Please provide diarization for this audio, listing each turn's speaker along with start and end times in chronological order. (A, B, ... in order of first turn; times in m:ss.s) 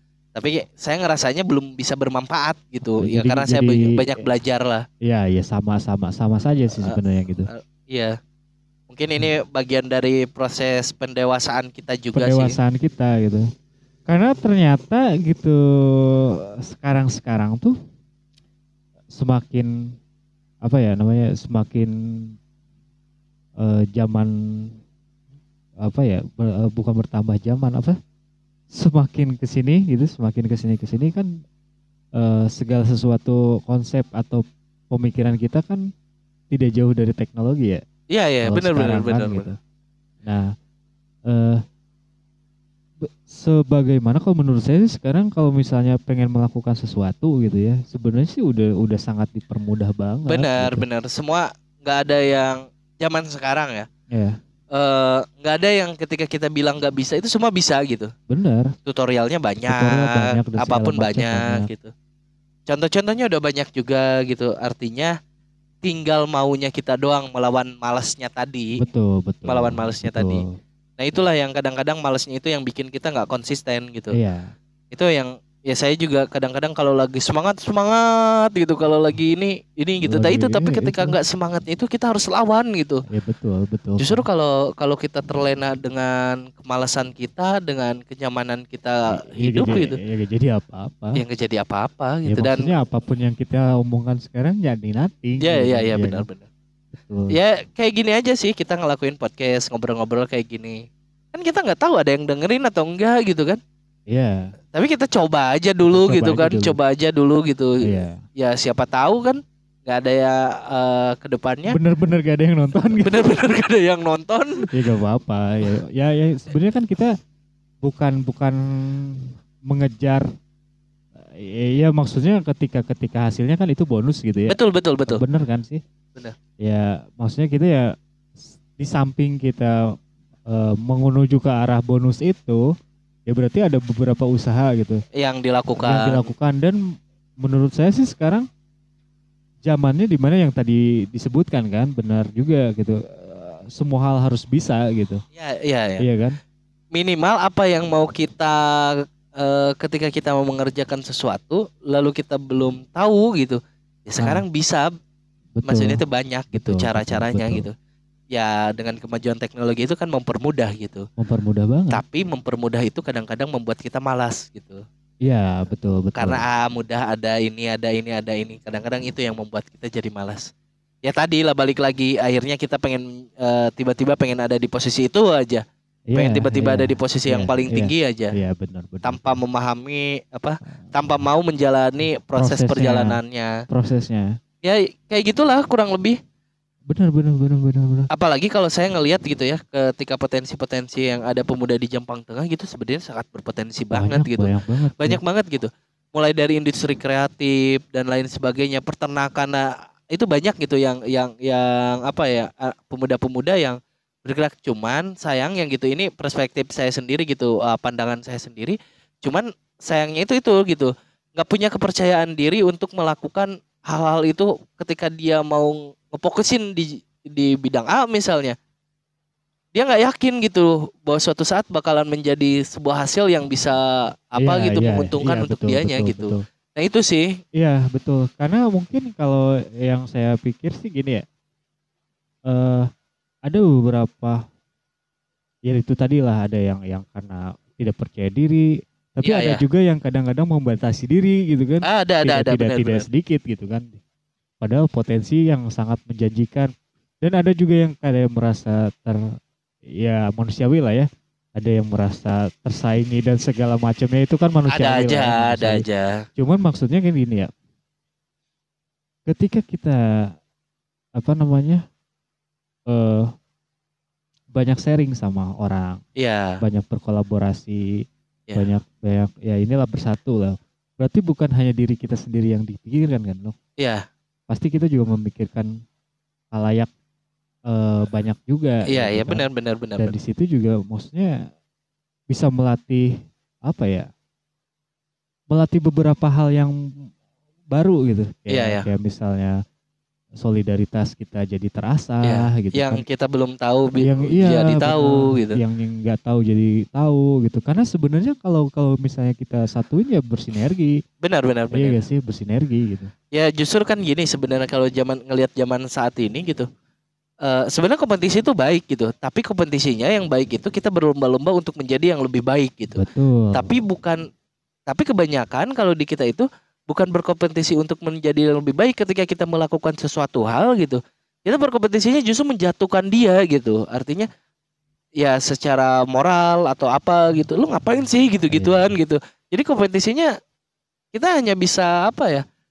0:00.4-0:04.8 A
0:03.0-0:04.2 B
0:05.0-0:07.5 B
0:06.8-0:08.2 A
0:08.9-0:12.6 A
0:12.1-0:13.4 B
0:14.1-0:17.7 B
0:19.1-0:19.9 B
0:20.6-0:22.4 B
0:23.6-0:24.8 B
0:25.8-0:28.0 B
0:28.7-0:31.4 B
0:32.1-0:35.9 B
0:36.5-0:37.8 B
0:38.1-0:39.5 A
0:38.5-0:39.6 B
0:41.3-0:41.6 B
0:43.0-0:50.8 B
0:50.3-0:53.9 A
0:54.1-0:54.4 B
0:54.7-0:58.1 A
0:58.3-0:58.7 B
0:58.9-1:01.9 A
0:59.7-1:01.7 B
1:02.7-1:05.1 A
1:05.8-1:08.7 A
1:08.8-1:10.5 B
1:09.5-1:10.4 A
1:11.0-1:14.2 A
1:14.1-1:14.5 B
1:14.9-1:23.0 A
1:20.1-1:21.2 B
1:23.1-1:24.2 B
1:24.0-1:30.0 A
1:29.1-1:31.2 B
1:31.1-1:32.7 A
1:32.3-1:36.3 B
1:35.4-1:36.5 A
1:37.0-1:37.3 B
1:37.3-1:40.8 A
1:41.3-1:43.6 A
1:44.1-1:44.5 B
1:44.7-1:47.8 A
1:45.8-1:46.8 B
1:47.8-1:48.2 B
1:48.4-1:51.8 A
1:51.7-1:53.3 B
1:53.0-1:54.7 A
1:54.7-1:57.2 B
1:57.8-2:00.2 B
2:01.2-2:05.8 B
2:04.5-2:05.2 A
2:06.6-2:09.8 B
2:10.5-2:12.6 B
2:13.3-2:15.0 B
2:15.2-2:16.3 A
2:15.8-2:16.8 B
2:17.4-2:18.5 B
2:19.6-2:25.2 B
2:25.4-2:26.0 A
2:26.0-2:26.4 B
2:26.9-2:34.9 A
2:35.6-2:37.7 B
2:35.7-2:37.7 A
2:38.3-2:41.0 A
2:41.2-2:42.0 B
2:41.9-2:44.8 A
2:45.2-2:46.4 B
2:46.2-2:50.5 A
2:51.0-2:55.6 A
2:56.1-2:59.4 B
2:56.1-2:58.4 A
2:59.0-3:03.5 A
3:02.4-3:04.3 B
3:04.6-3:06.2 A
3:06.9-3:08.1 B
3:08.1-3:38.6 A
3:13.9-3:15.2 B
3:39.7-3:47.3 A
3:44.4-3:46.4 B
3:47.6-3:51.2 B
3:52.5-3:52.9 B
3:53.5-3:54.4 B
3:55.7-4:04.0 B
3:59.2-3:59.6 A
4:01.8-4:03.1 A
4:04.6-4:06.7 B
4:07.2-4:09.2 B
4:10.0-4:15.8 B
4:14.7-4:16.2 A
4:16.4-4:17.5 B
4:19.3-4:20.3 B
4:21.2-4:21.8 B
4:22.9-4:23.3 B
4:24.6-4:26.0 B
4:26.2-4:26.6 A
4:26.6-4:28.0 B
4:28.6-4:33.6 B
4:34.5-4:35.7 B
4:36.5-4:36.9 B
4:37.7-4:39.4 B
4:38.9-4:40.1 A
4:40.0-4:41.4 B
4:42.3-4:43.1 B
4:43.6-4:44.1 B
4:45.5-4:46.7 B
4:47.7-4:49.6 B
4:48.5-4:48.9 A
4:50.4-4:53.0 B
4:52.2-4:55.6 A
4:54.0-5:01.0 B
5:01.2-5:02.0 A
5:01.7-5:03.1 B
5:03.3-5:06.7 A
5:07.4-5:14.2 A
5:13.0-5:13.7 B
5:14.9-5:24.3 A
5:25.2-5:30.3 A
5:28.5-5:29.0 B
5:31.1-5:32.4 A